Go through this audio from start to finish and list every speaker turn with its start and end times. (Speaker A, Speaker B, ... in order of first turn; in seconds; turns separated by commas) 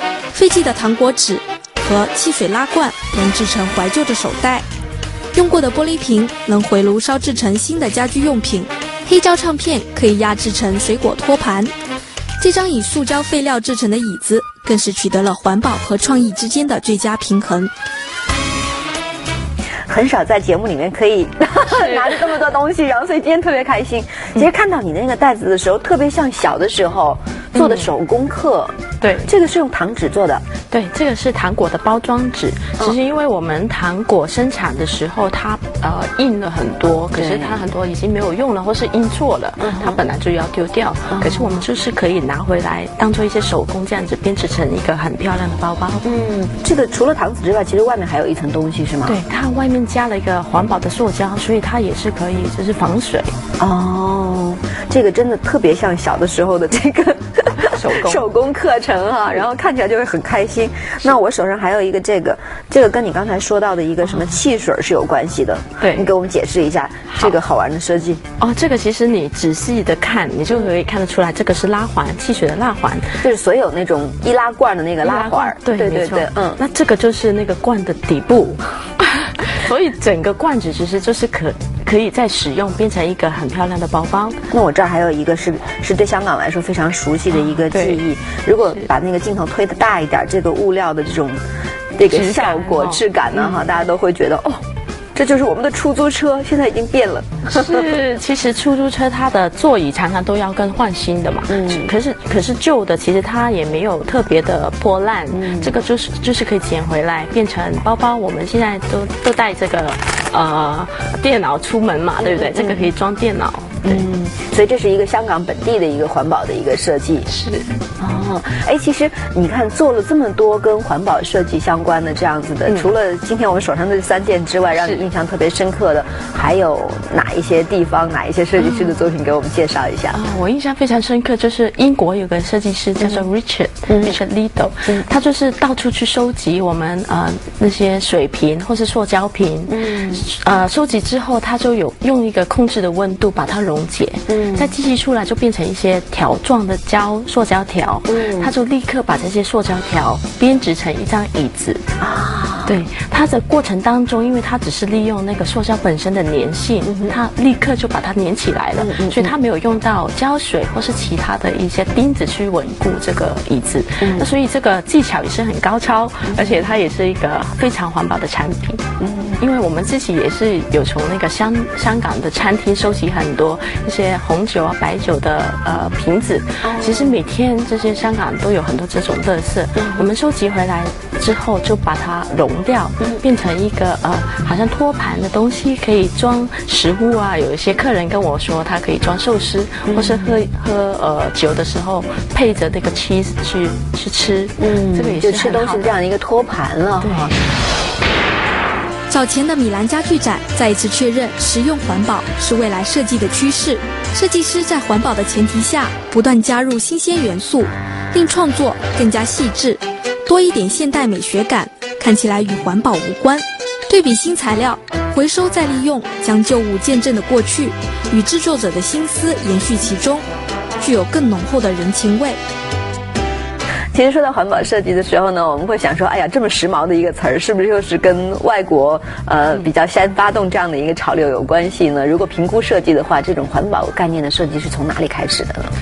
Speaker A: 0.3-4.7, Speaker A: 5.3-11.7, Speaker A: 12.4-17.7, Speaker B: 19.9-30.4, Speaker C: 21.7-22.4, Speaker C: 27.6-27.9, Speaker C: 29.0-29.3, Speaker C: 30.7-46.1, Speaker B: 37.1-37.6, Speaker B: 39.6-40.0, Speaker B: 41.1-41.6, Speaker B: 46.0-49.2, Speaker C: 49.1-53.4, Speaker B: 53.6-68.2, Speaker C: 57.6-58.2, Speaker C: 64.0-64.4, Speaker C: 65.8-66.1, Speaker C: 67.1-67.4, Speaker C: 68.4-73.2, Speaker B: 73.2-76.6, Speaker C: 75.0-84.4, Speaker B: 84.5-91.4, Speaker C: 87.3-88.0, Speaker B: 92.0-94.6, Speaker C: 92.1-93.7, Speaker B: 95.2-97.9, Speaker C: 97.5-114.0, Speaker B: 101.5-101.9, Speaker B: 105.3-105.7, Speaker B: 112.2-112.9, Speaker B: 113.8-117.3, Speaker C: 117.3-117.7, Speaker B: 118.0-130.2, Speaker C: 124.8-125.0, Speaker C: 128.6-129.0, Speaker C: 130.1-151.8, Speaker B: 133.9-134.2, Speaker B: 139.7-140.3, Speaker B: 144.3-144.7, Speaker B: 148.1-148.5, Speaker B: 152.0-152.8, Speaker C: 152.7-168.8, Speaker B: 156.8-157.2, Speaker B: 158.8-159.3, Speaker B: 164.0-164.3, Speaker B: 166.3-166.7, Speaker B: 169.0-169.4, Speaker C: 169.4-195.9, Speaker B: 176.6-177.2, Speaker B: 179.8-180.1, Speaker B: 189.9-190.4, Speaker B: 194.6-197.4, Speaker C: 197.0-197.3, Speaker A: 199.1-220.2, Speaker A: 220.8-222.4, Speaker B: 223.9-235.7